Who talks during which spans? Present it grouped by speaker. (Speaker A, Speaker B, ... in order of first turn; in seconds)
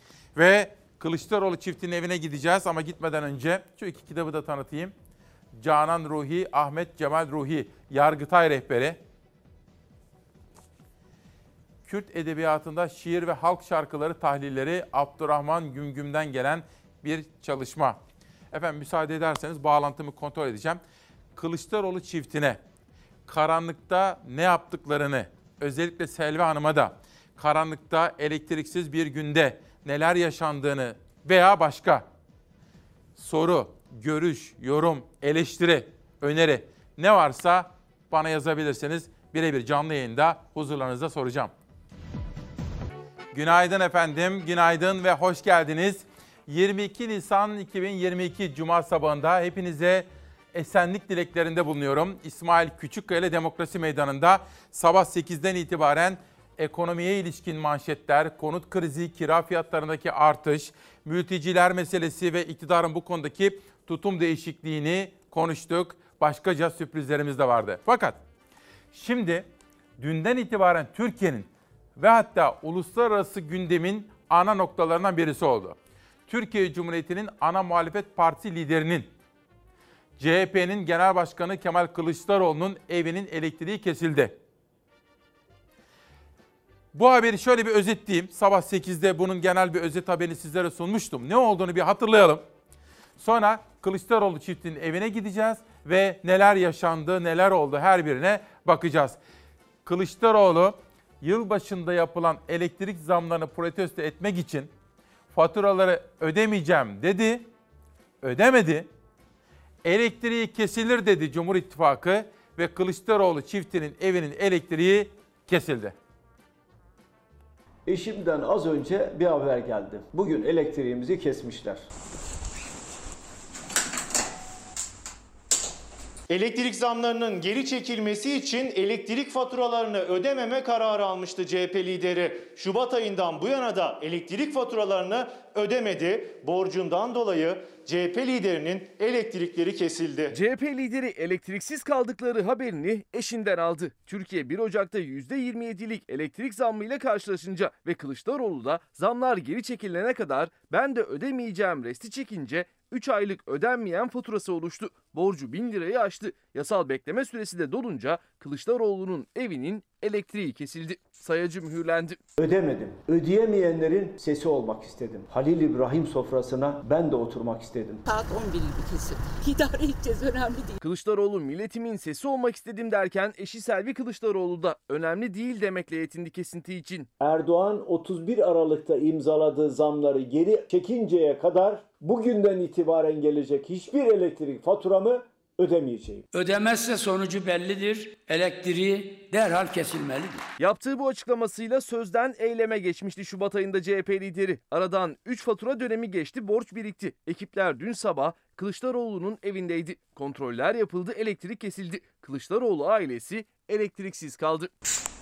Speaker A: 0.4-4.9, 5.5-9.0, 11.8-18.0, 18.5-20.8, 21.4-22.6, 23.3-32.1, 33.2-41.5, 43.3-68.2, 68.9-75.8, 76.3-79.1, 80.2-84.4, 86.9-92.5, 93.2-99.2, 99.8-104.7, 105.3-107.5, 108.2-108.9, 109.8-116.0
Speaker B: 117.9-121.8, 162.4-168.0, 177.2-186.3
Speaker C: 126.3-140.4
Speaker D: 140.3-162.2, 170.8-177.1, 190.6-204.7
Speaker E: 168.1-170.8
Speaker F: 186.3-190.4